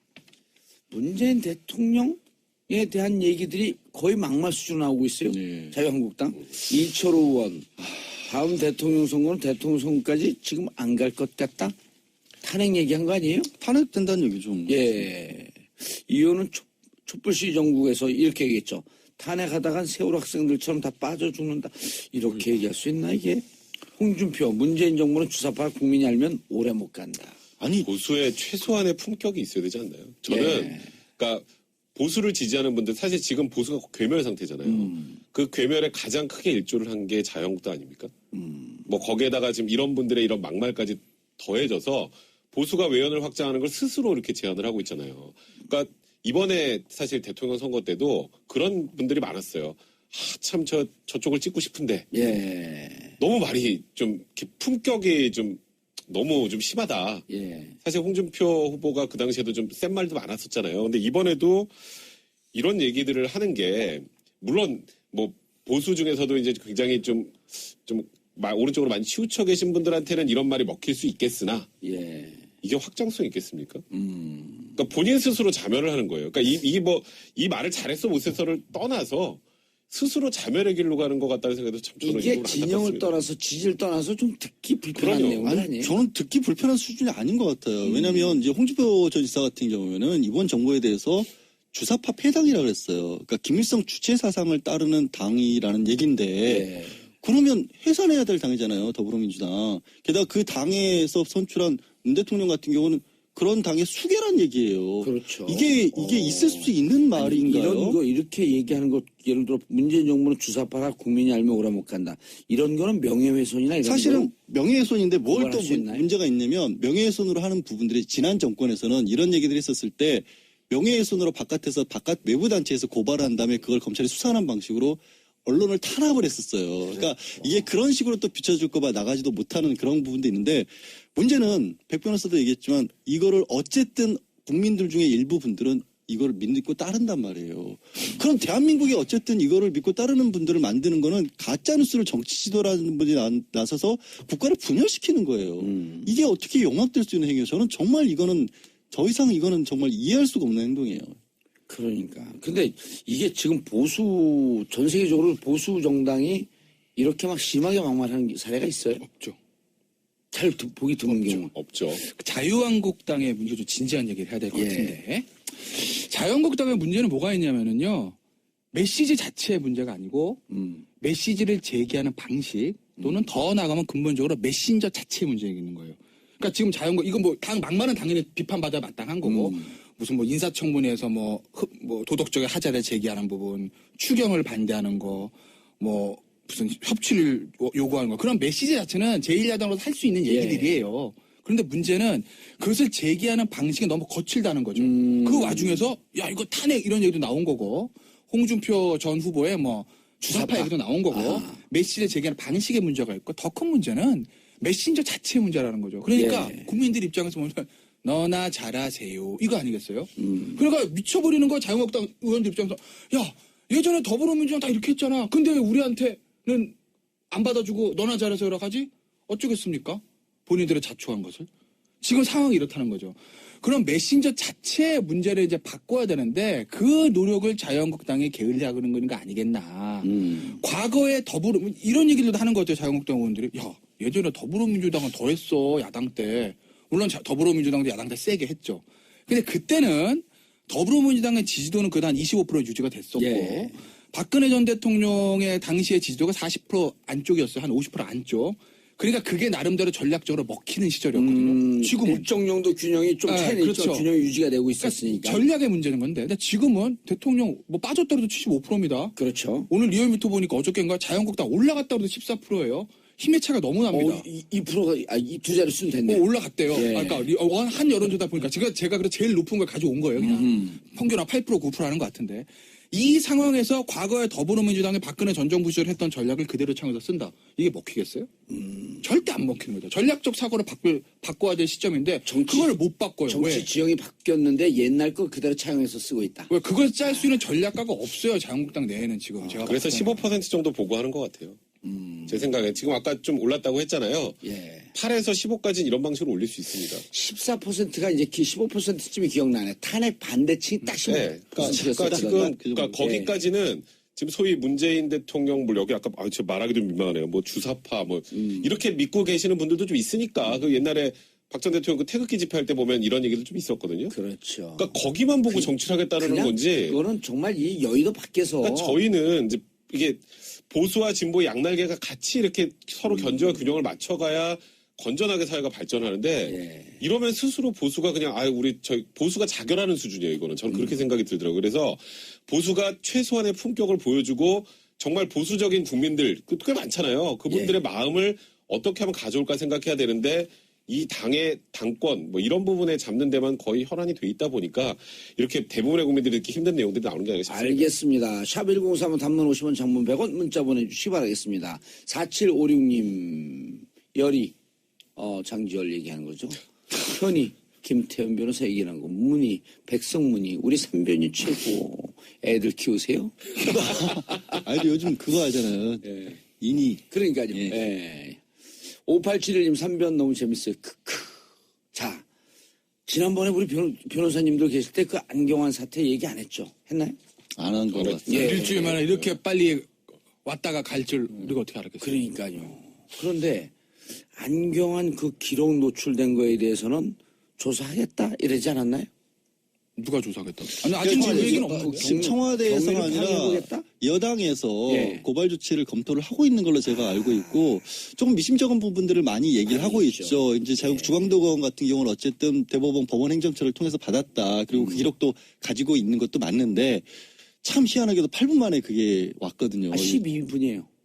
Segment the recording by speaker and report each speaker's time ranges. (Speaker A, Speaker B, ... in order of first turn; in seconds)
Speaker A: 0.9-11.7, 12.4-13.5, 14.7-23.4, 23.9-27.4, 30.3-30.8, 34.6-35.2, 38.3-38.8, 52.1-53.1, 57.3-57.8, 71.8-72.4, 73.9-74.8, 82.0-86.0, 87.8-88.4, 96.4-97.0, 105.0-114.3, 115.3-116.1, 145.6-146.2, 151.7-159.0, 160.3-161.5, 164.5-165.0, 170.5-170.8, 179.2-179.7, 190.2-190.8, 194.7-195.9, 200.3-201.6, 206.1-206.7, 210.2-210.6, 230.0-230.6, 243.2-243.8, 251.1-255.4, 259.1-259.7, 263.9-267.3, 270.2-270.8, 278.5-279.0, 282.2-282.7, 283.2-286.5, 287.1-287.3, 291.8-292.5, 294.4-294.9, 297.1-303.4, 308.3-308.8, 314.1-314.9, 315.5-319.0, 323.1-323.6, 326.4-327.0, 330.7-331.0, 337.5-337.8, 347.5-354.5, 355.1-364.6, 366.0-366.4, 367.1-368.4, 369.0-371.4, 371.9-372.2, 373.1-377.2, 378.3-379.0, 382.0-383.7, 384.3-389.1, 391.0-393.8, 394.9-395.2, 396.8-397.8, 399.6-401.3, 404.7-405.1, 409.9-410.9
Speaker B: 5.3-5.7, 13.6-14.9, 27.6-27.9, 85.4-108.0, 113.8-151.1, 301.5-303.0, 363.6-367.8, 377.6-378.6, 390.9-407.1, 407.6-410.2
Speaker C: 27.8-38.1, 38.9-52.1, 53.2-57.2, 57.8-61.7, 62.5-71.7, 72.6-73.8, 74.8-83.2, 84.9-85.5, 161.5-162.0, 289.6-291.6, 292.3-297.0, 301.0-314.2, 314.8-317.0, 318.6-347.9, 377.9-379.3
Speaker D: 159.0-159.4, 161.1-161.4, 162.0-168.2, 168.7-170.4, 171.0-216.8, 217.3-221.5, 222.0-252.2, 253.2-254.1, 254.8-259.1, 259.7-264.2, 266.1-278.3, 279.0-283.7, 286.5-290.3, 378.3-382.2, 389.9-392.2